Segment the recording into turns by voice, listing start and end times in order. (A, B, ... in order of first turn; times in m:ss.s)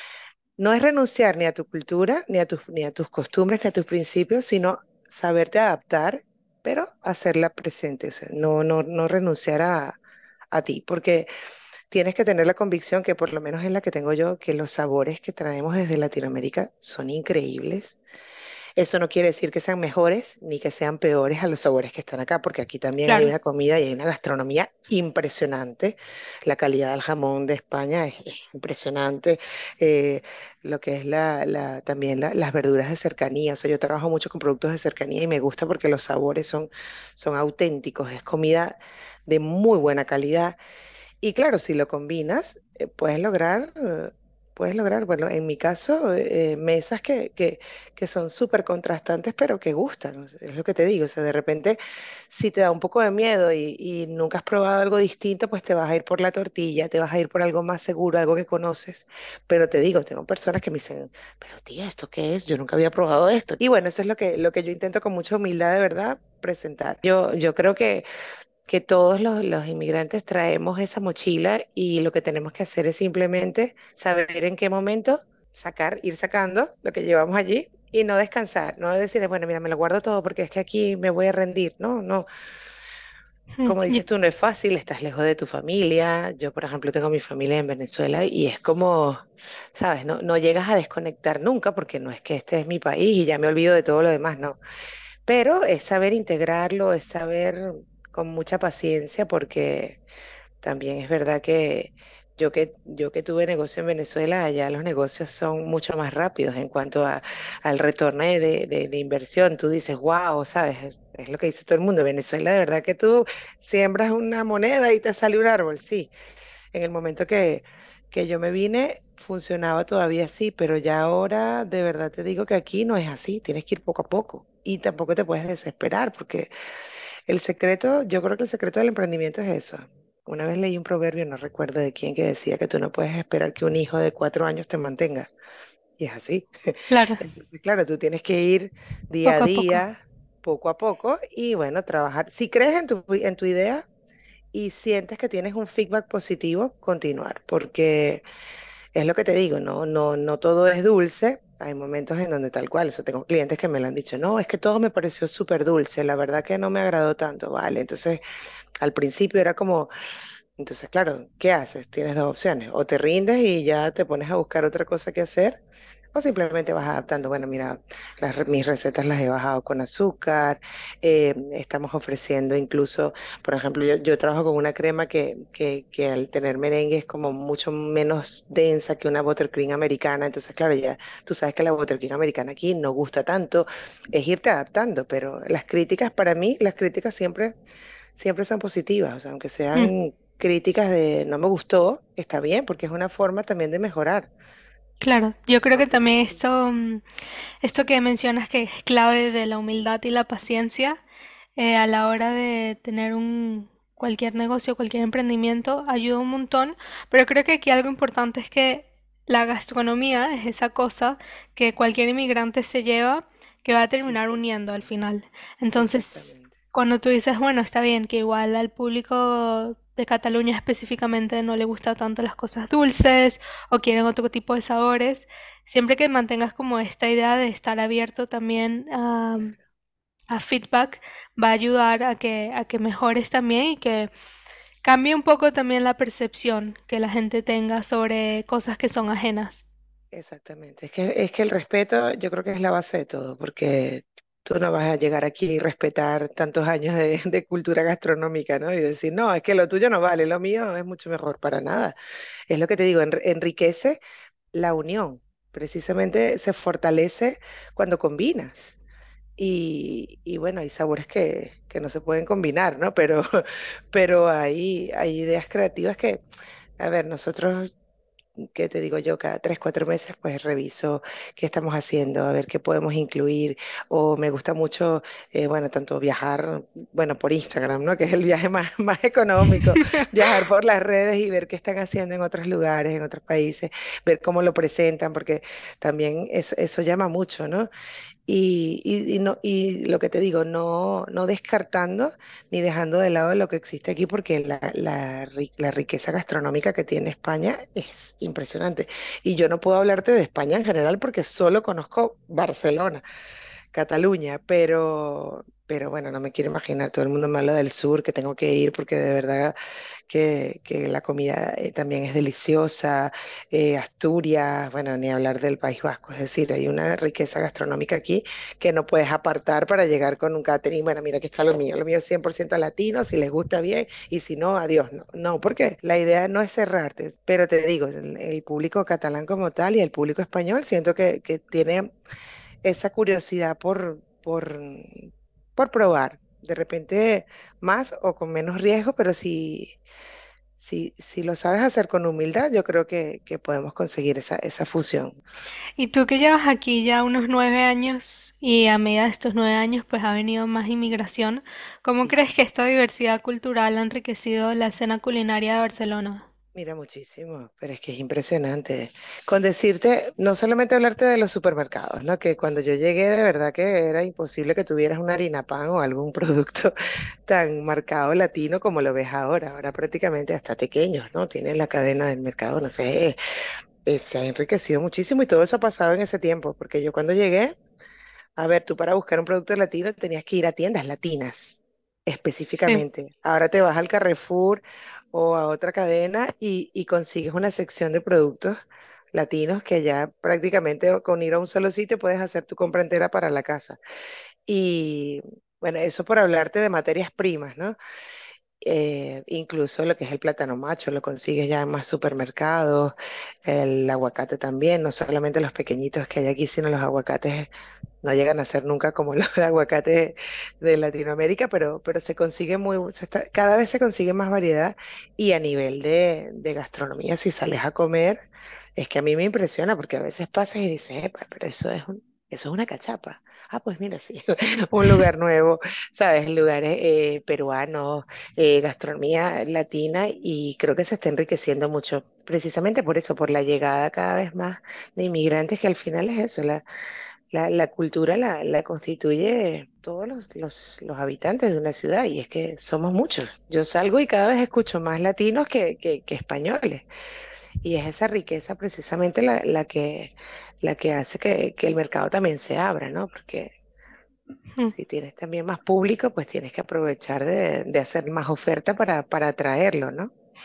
0:00.6-0:10.0 A
0:10.5-0:11.3 A
0:11.9-0:18.0 A
0:18.8-0:38.7 A
0:23.0-0:23.3 B
0:39.3-0:40.6 A
0:41.2-0:51.8 A
0:52.3-1:08.0 A
1:08.7-1:22.2 A
1:23.6-1:24.0 B
1:23.6-1:34.6 A
1:35.3-1:40.0 A
1:40.6-1:56.1 A
1:56.7-2:06.5 A
2:07.3-2:15.3 A
2:16.0-2:23.8 A
2:16.9-2:17.2 B
2:19.2-2:19.8 B
2:24.5-2:28.2 A
2:29.0-2:38.2 A
2:38.8-2:39.9 A
2:40.6-2:45.6 A
2:46.1-3:07.5 A
3:08.2-3:14.3 A
3:15.0-3:17.0 B
3:15.7-3:16.4 A
3:17.6-3:21.0 B
3:21.6-3:49.5 B
3:34.0-3:34.4 A
3:35.8-3:36.6 A
3:50.3-3:54.1 B
3:54.8-3:59.6 B
4:00.1-4:11.9 A
4:12.5-4:14.0 A
4:14.6-4:18.7 A
4:19.4-4:26.2 A
4:26.8-4:27.7 A
4:28.4-4:47.7 A
4:39.7-4:40.0 B
4:48.3-5:03.0 A
5:03.7-5:09.5 A
5:10.1-5:31.9 A
5:32.6-5:39.8 A
5:40.6-5:45.2 A
5:45.8-5:56.2 B
5:56.5-6:06.7 A
6:07.2-6:13.2 A
6:13.8-6:17.6 A
6:18.4-6:24.6 A
6:25.1-6:28.5 A
6:29.1-6:33.8 A
6:34.5-6:37.7 A
6:38.6-6:42.9 A
6:43.4-6:47.5 A
6:48.0-6:58.2 A
6:58.8-7:16.6 A
7:17.3-7:26.8 A
7:27.6-7:33.5 A
7:34.7-7:40.1 A